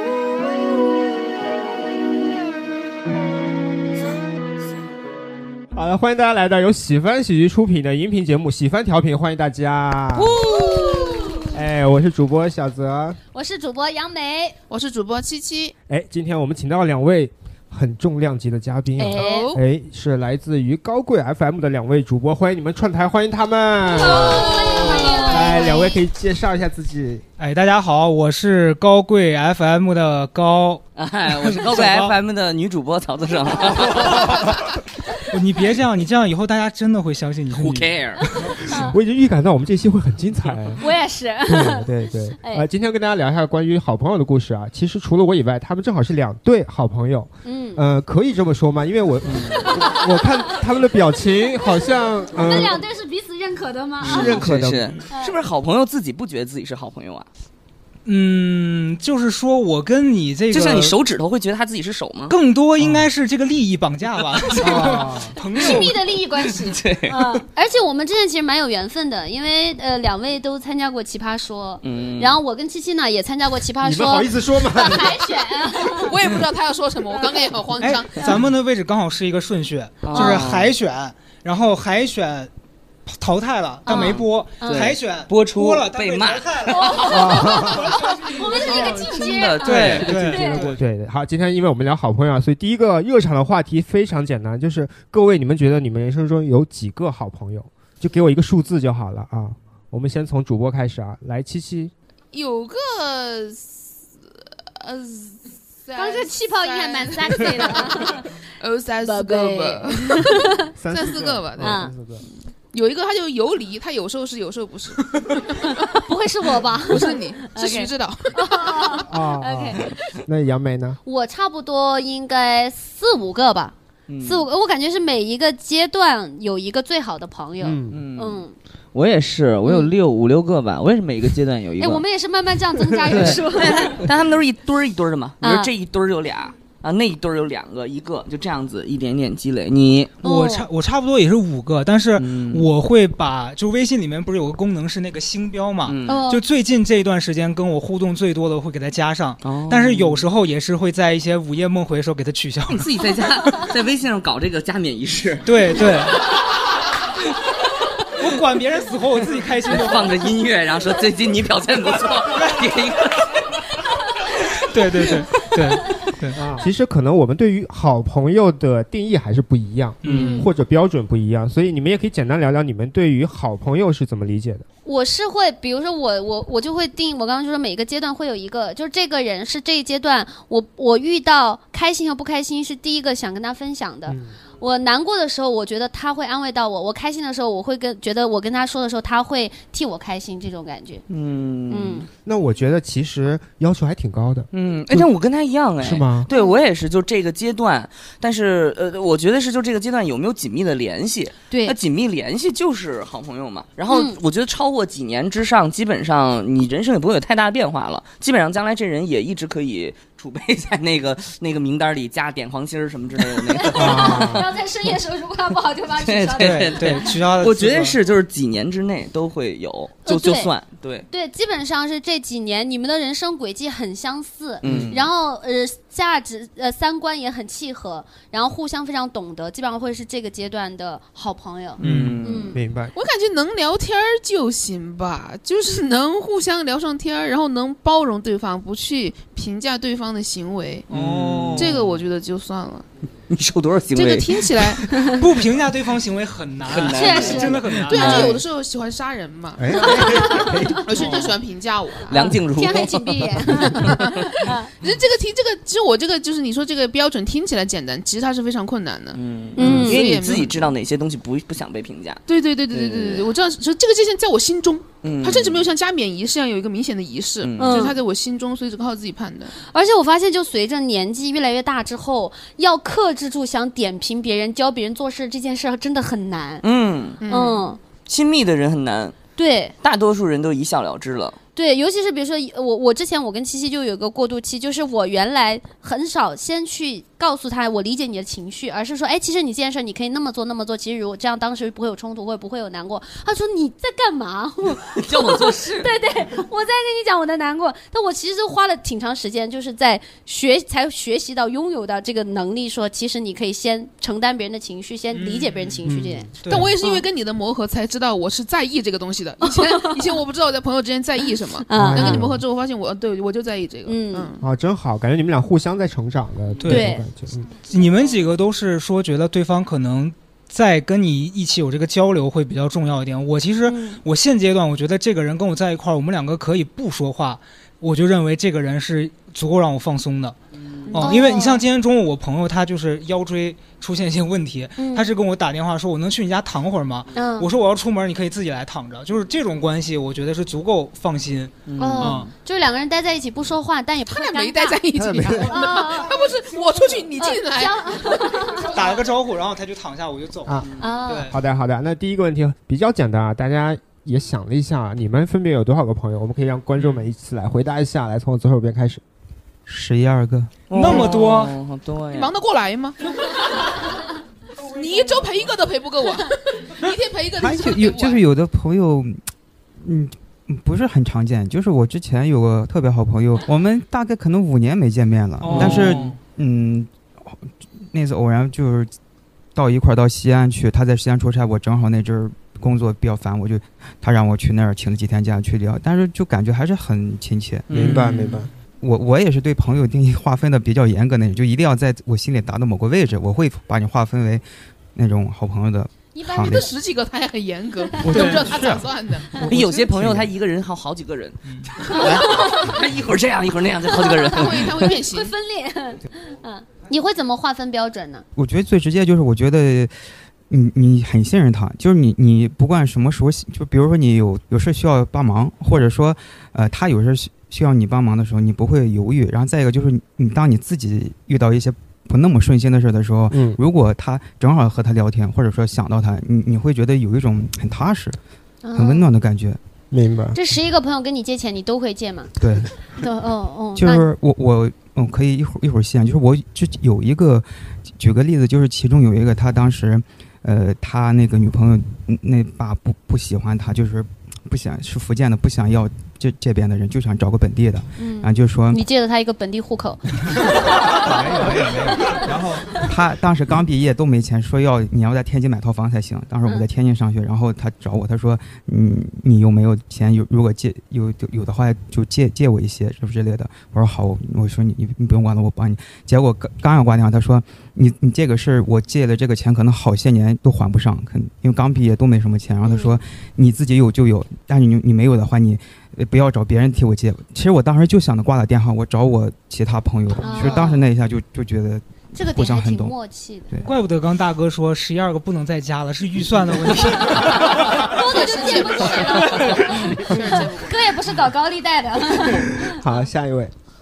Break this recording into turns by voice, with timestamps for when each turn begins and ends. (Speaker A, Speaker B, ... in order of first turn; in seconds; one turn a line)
Speaker A: 5.7-10.4
Speaker B: 10.2-11.5
Speaker A: 11.5-13.2
Speaker B: 13.3-14.6
Speaker C: 14.7-15.8
Speaker A: 15.9-27.2
Speaker B: 19.0-19.5
Speaker C: 19.2-19.6
Speaker B: 24.0-26.0
Speaker D: 27.4-32.1
Speaker E: 31.0-34.4
Speaker A: 33.7-34.5
Speaker D: 35.3-38.4
Speaker E: 37.5-38.2
Speaker B: 38.7-39.0
Speaker A: 38.8-40.8
Speaker B: 40.8-41.8
Speaker A: 41.4-52.8
Speaker B: 47.5-47.8
Speaker E: 49.3-49.6
Speaker B: 52.3-54.4
Speaker E: 54.0-57.3
Speaker A: 54.0-55.0
Speaker D: 58.0-61.0
Speaker E: 60.5-62.4
Speaker D: 62.3-65.9
Speaker A: 64.6-65.3
Speaker B: 65.5-76.1
Speaker E: 66.4-67.2
Speaker E: 71.8-72.4
Speaker A: 73.8-75.2
Speaker C: 76.0-78.3
Speaker B: 77.1-77.5
Speaker D: 77.8-82.5
Speaker E: 80.0-80.7
Speaker B: 80.1-80.4
Speaker D: 83.1-88.9
Speaker B: 83.9-84.9
Speaker E: 83.9-87.7
Speaker A: 87.1-87.9
Speaker B: 87.9-90.7
Speaker E: 88.6-90.7
Speaker D: 89.6-90.8
Speaker A: 90.8-101.9
Speaker C: 102.3-103.8
Speaker C: 104.7-110.3
Speaker B: 106.0-108.3
Speaker B: 109.0-110.5
Speaker A: 110.8-112.2
Speaker C: 110.9-111.8
Speaker B: 111.6-111.9
Speaker C: 112.7-115.8
Speaker B: 115.9-120.0
Speaker C: 116.9-119.0
Speaker A: 119.1-121.0
Speaker B: 121.1-128.6
Speaker E: 124.1-124.5
Speaker A: 127.6-128.0
Speaker E: 127.9-132.0
Speaker B: 131.8-134.0
Speaker E: 133.1-140.2
Speaker B: 135.4-135.7
Speaker D: 140.2-153.1
Speaker B: 140.2-140.7
Speaker E: 142.2-142.7
Speaker E: 145.9-146.2
Speaker B: 146.1-146.4
Speaker E: 149.4-150.2
Speaker E: 152.7-155.9
Speaker D: 155.4-156.2
Speaker D: 158.2-160.1
Speaker E: 159.7-163.3
Speaker D: 164.7-166.4
Speaker A: 166.3-174.7
Speaker D: 170.0-170.5
Speaker B: 170.1-170.5
Speaker B: 174.8-191.0
Speaker A: 184.1-184.3
Speaker E: 191.1-192.1
Speaker B: 191.7-192.1
Speaker A: 192.2-195.1
Speaker E: 194.5-214.5
Speaker A: 195.8-196.3
Speaker B: 196.3-196.6
Speaker B: 203.9-204.2
Speaker B: 213.6-217.1
Speaker A: 213.7-214.4
Speaker E: 216.0-221.1
Speaker D: 216.4-218.0
Speaker B: 220.1-220.5
Speaker B: 221.1-232.6
Speaker E: 224.6-225.0
Speaker A: 224.7-224.9
Speaker D: 231.8-232.2
Speaker E: 231.8-232.6
Speaker A: 232.5-232.9
Speaker C: 232.9-240.9
Speaker D: 240.9-241.8
Speaker E: 240.9-241.8
Speaker C: 241.6-242.9
Speaker E: 243.3-245.1
Speaker C: 243.9-244.8
Speaker D: 245.2-248.3
Speaker E: 246.6-248.4
Speaker B: 246.9-248.3
Speaker C: 247.9-249.9
Speaker A: 249.6-250.9
Speaker B: 249.8-251.2
Speaker C: 250.8-252.1
Speaker D: 251.0-251.3
Speaker E: 252.1-254.2
Speaker B: 252.6-254.7
Speaker C: 254.8-260.5
Speaker E: 259.1-263.3
Speaker B: 259.6-260.0
Speaker C: 262.3-269.6
Speaker E: 265.0-265.7
Speaker E: 267.4-267.8
Speaker B: 267.6-268.0
Speaker B: 269.6-276.6
Speaker E: 276.6-277.2
Speaker C: 277.2-277.7
Speaker B: 277.3-277.8
Speaker E: 278.1-279.2
Speaker B: 279.4-279.8
Speaker E: 279.8-281.4
Speaker B: 281.6-307.1
Speaker E: 295.0-295.9
Speaker D: 305.1-305.8
Speaker A: 305.9-306.3
Speaker D: 306.4-306.7
Speaker C: 306.5-314.4
Speaker B: 309.4-310.1
Speaker B: 311.7-312.2
Speaker A: 311.8-312.4
Speaker B: 313.9-314.3
Speaker A: 314.4-317.5
Speaker D: 316.6-317.0
Speaker B: 316.6-317.0
Speaker D: 317.7-330.4
Speaker B: 323.7-324.0
Speaker E: 330.8-331.1
Speaker B: 330.9-331.6
Speaker D: 330.9-342.3
Speaker B: 334.8-335.1
Speaker B: 337.1-337.5
Speaker E: 341.7-342.3
Speaker B: 341.8-346.3
Speaker C: 344.1-348.2
Speaker A: 344.9-345.6
Speaker B: 347.2-349.0
Speaker D: 348.7-351.3
Speaker B: 350.8-351.3
Speaker A: 351.3-359.0
Speaker F: 359.7-360.6
Speaker E: 360.7-362.3
Speaker D: 360.7-361.6
Speaker C: 362.1-363.0
Speaker C: 364.7-368.2
Speaker F: 367.4-379.0
Speaker D: 375.4-376.2
Speaker A: 375.6-375.9
Speaker F: 379.5-388.0
Speaker E: 387.7-388.4
Speaker A: 387.7-388.5
Speaker D: 387.7-388.5
Speaker F: 388.8-396.7
Speaker B: 396.1-396.7
Speaker C: 396.5-399.3
Speaker F: 398.1-398.9
Speaker D: 398.1-398.6
Speaker E: 399.4-404.9
Speaker A: 399.5-400.2
Speaker F: 399.9-400.2
Speaker B: 402.1-402.6
Speaker B: 404.0-408.2
Speaker C: 404.4-405.3
Speaker F: 408.4-428.2
Speaker A: 423.3-423.6
Speaker B: 428.6-429.1
Speaker F: 428.7-429.6
Speaker A: 429.9-430.4
Speaker B: 430.3-434.1
Speaker F: 432.4-432.7
Speaker F: 433.7-448.8
Speaker B: 448.0-450.4
Speaker A: 451.2-452.0
Speaker F: 452.9-483.0
Speaker B: 472.6-473.0
Speaker B: 480.2-480.8
Speaker B: 482.1-483.5
Speaker D: 483.6-487.9
Speaker B: 487.9-489.7
Speaker C: 488.0-490.9
Speaker D: 489.0-490.0
Speaker B: 490.2-492.7
Speaker A: 492.8-493.5